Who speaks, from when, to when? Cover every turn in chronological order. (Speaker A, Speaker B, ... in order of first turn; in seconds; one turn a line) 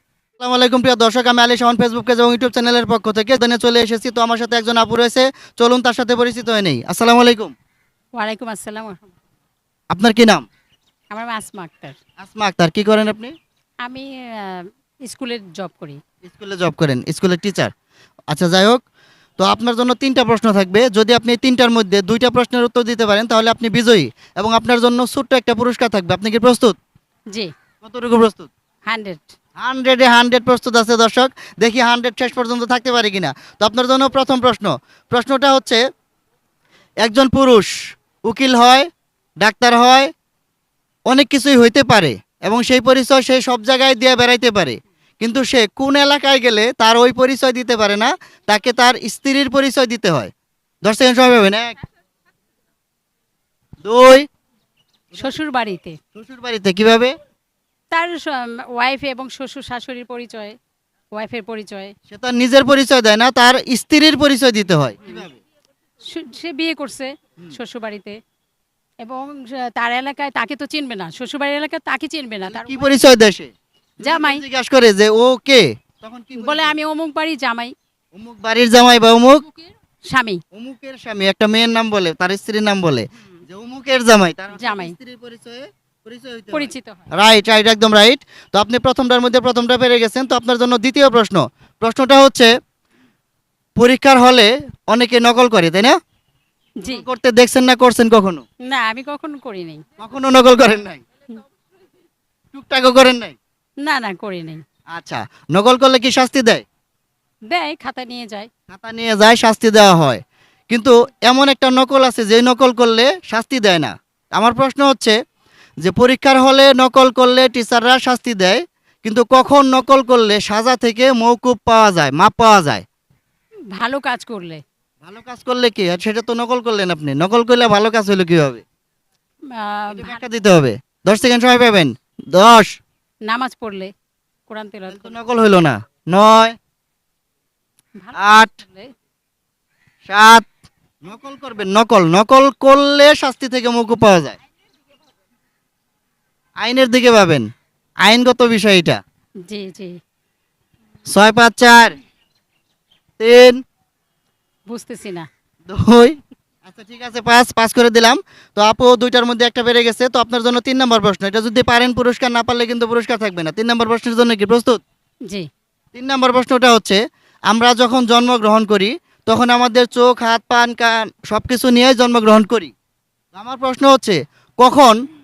Speaker A: 0.4-7.5
Speaker B: 8.2-9.1
Speaker A: 9.9-10.4
Speaker B: 11.1-12.0
Speaker A: 12.2-13.3
Speaker B: 13.8-16.0
Speaker A: 16.2-17.7
Speaker A: 18.3-18.8
Speaker A: 19.4-26.8
Speaker A: 27.8-28.5
Speaker B: 28.9-29.3
Speaker A: 29.6-35.8
Speaker A: 37.0-37.7
Speaker A: 38.3-38.9
Speaker A: 39.4-40.1
Speaker A: 41.1-50.3
Speaker A: 50.8-51.8
Speaker A: 53.8-54.3
Speaker B: 55.1-56.0
Speaker A: 56.1-57.1
Speaker B: 57.9-60.6
Speaker B: 61.1-61.9
Speaker A: 62.1-65.4
Speaker B: 66.1-68.2
Speaker B: 69.0-72.9
Speaker A: 72.5-76.8
Speaker B: 74.0-74.4
Speaker B: 76.3-77.7
Speaker A: 78.1-79.4
Speaker B: 79.5-80.4
Speaker A: 80.5-92.5
Speaker B: 84.5-85.0
Speaker B: 86.5-87.1
Speaker A: 93.8-96.0
Speaker A: 96.9-98.4
Speaker B: 98.7-99.8
Speaker A: 100.0-101.0
Speaker A: 102.5-103.4
Speaker B: 103.8-104.6
Speaker A: 104.9-106.6
Speaker B: 107.5-108.5
Speaker A: 108.7-115.2
Speaker A: 115.8-122.8
Speaker B: 123.7-124.6
Speaker A: 125.0-128.6
Speaker B: 129.5-130.2
Speaker A: 129.9-132.8
Speaker B: 133.3-133.9
Speaker B: 134.5-135.2
Speaker A: 134.9-136.6
Speaker B: 138.0-138.9
Speaker A: 138.2-138.6
Speaker A: 140.1-140.5
Speaker A: 141.0-144.4
Speaker A: 146.6-147.5
Speaker A: 148.0-149.0
Speaker B: 149.4-150.0
Speaker A: 151.1-152.0
Speaker A: 153.2-153.6
Speaker B: 154.7-155.3
Speaker A: 155.7-164.8
Speaker A: 165.9-172.7
Speaker A: 173.3-175.0